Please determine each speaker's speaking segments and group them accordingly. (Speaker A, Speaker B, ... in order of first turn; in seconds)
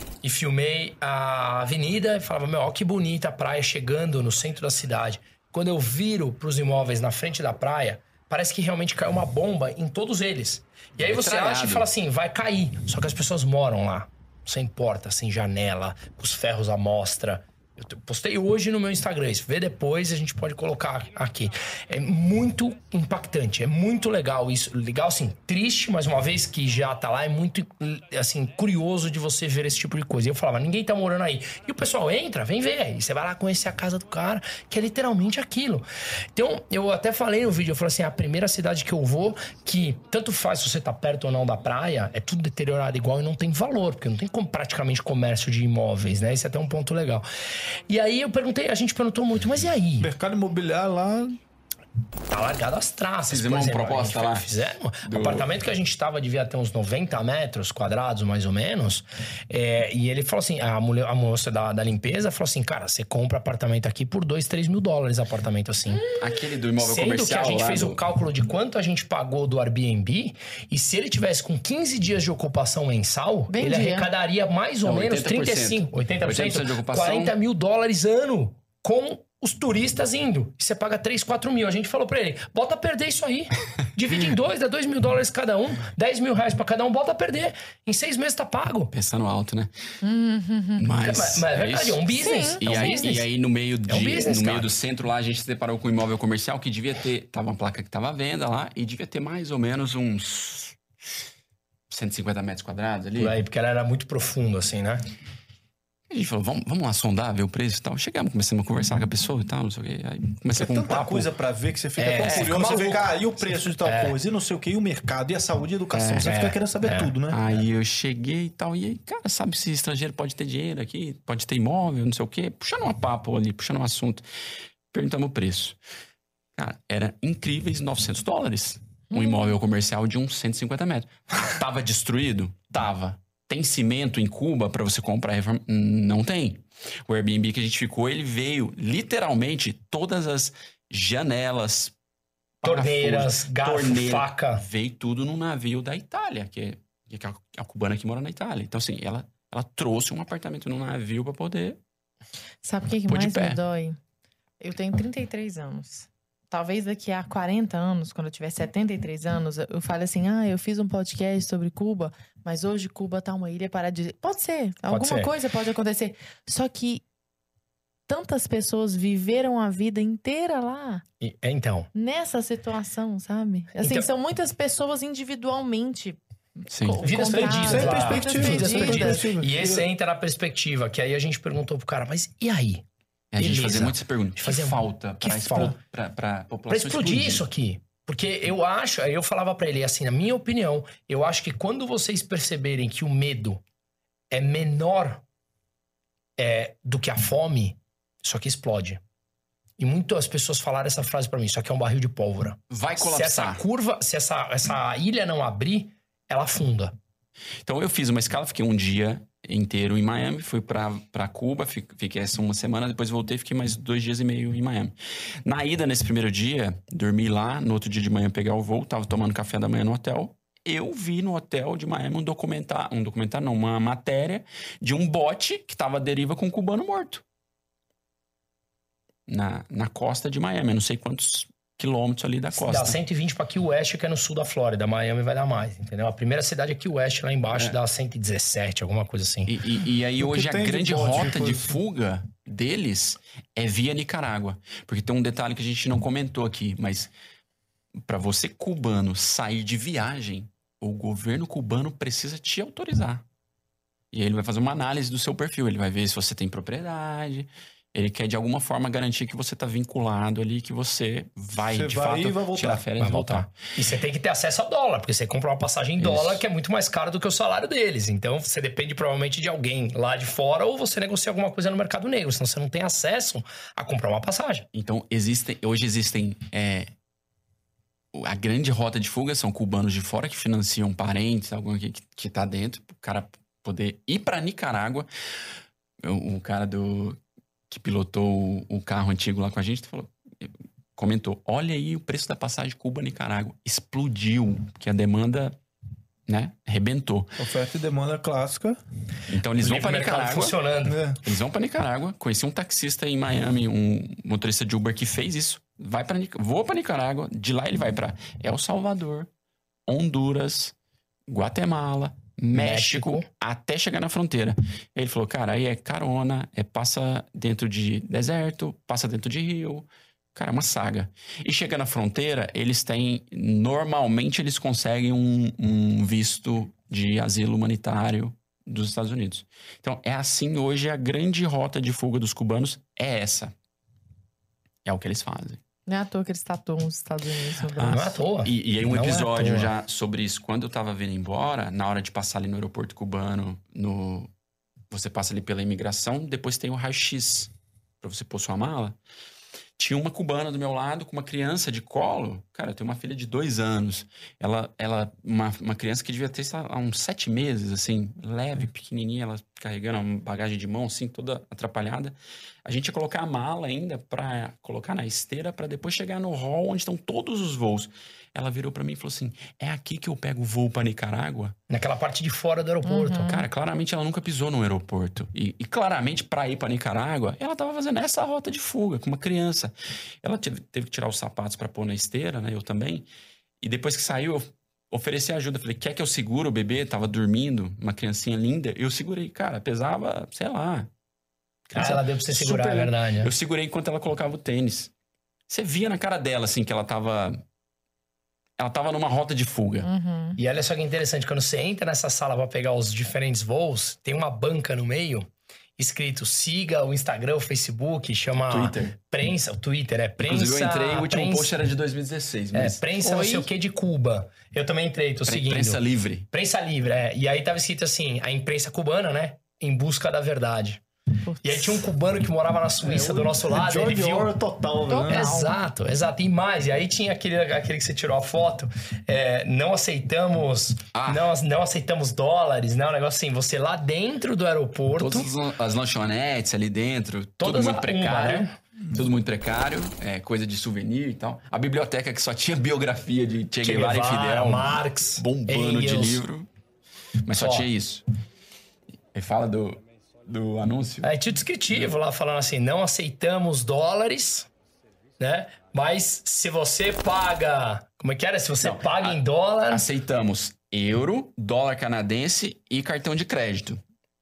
Speaker A: 0.2-47.3, 47.9-50.1, 52.3-66.0, 66.8-88.9, 91.0-93.3, 93.9-94.7, 103.2-105.0, 112.0-114.2, 116.2-117.1, 142.6-144.6, 164.9-165.3, 171.2-171.9, 173.8-174.1, 177.0-182.8, 183.4-185.8, 186.7-193.6, 194.3-195.2, 196.4-199.0, 199.8-206.9, 232.6-239.5, 263.0-274.7, 299.6-301.0, 312.5-313.3, 337.8-339.7, 371.7-373.4, 391.7-393.3, 400.4-411.5, 412.5-420.8, 421.4-424.3, 425.1-435.3, 437.4-438.6, 443.6-446.2, 447.3-447.7, 451.0-454.5, 455.2-459.9
Speaker B: 11.0-11.9, 53.3-54.5, 55.0-55.5, 66.2-68.0, 74.8-77.3, 88.9-89.7, 90.8-92.1, 92.6-100.8, 101.9-103.3, 106.1-111.2, 112.2-112.5, 115.9-116.3, 117.3-124.2, 124.9-125.8, 126.6-141.9, 142.6-151.8, 153.1-153.6, 176.7-177.0, 183.3-187.4, 202.7-203.6, 207.6-227.2, 229.3-233.0, 239.5-247.1, 248.1-253.2, 254.1-263.6, 266.0-266.4, 274.7-276.9, 278.1-285.1, 286.0-287.2, 287.7-295.6, 296.3-297.4, 299.3-300.6, 301.2-309.3, 309.9-310.7, 311.3-333.5, 334.9-335.6, 337.7-344.3, 344.9-348.9, 349.8-371.6, 373.2-383.1, 383.6-390.9, 391.7-394.9, 395.5-397.4, 398.6-399.9, 408.5-408.9, 410.2-412.8, 415.3-416.3, 430.9-431.3, 435.0-446.5, 447.3-448.0, 449.1-451.1, 458.6-459.2, 459.7-463.8
Speaker C: 50.0-51.4, 110.5-117.4, 177.1-179.9, 240.2-241.8, 261.7-262.9, 297.4-298.8, 300.8-301.2, 422.8-425.3
Speaker D: 73.5-74.1, 90.0-90.9, 92.1-93.2, 129.1-129.5, 152.6-154.0, 154.6-167.0, 168.1-171.0, 171.9-179.3, 335.9-338.2, 372.9-373.4, 399.8-400.4, 413.0-413.5, 421.2-421.9, 424.9-425.6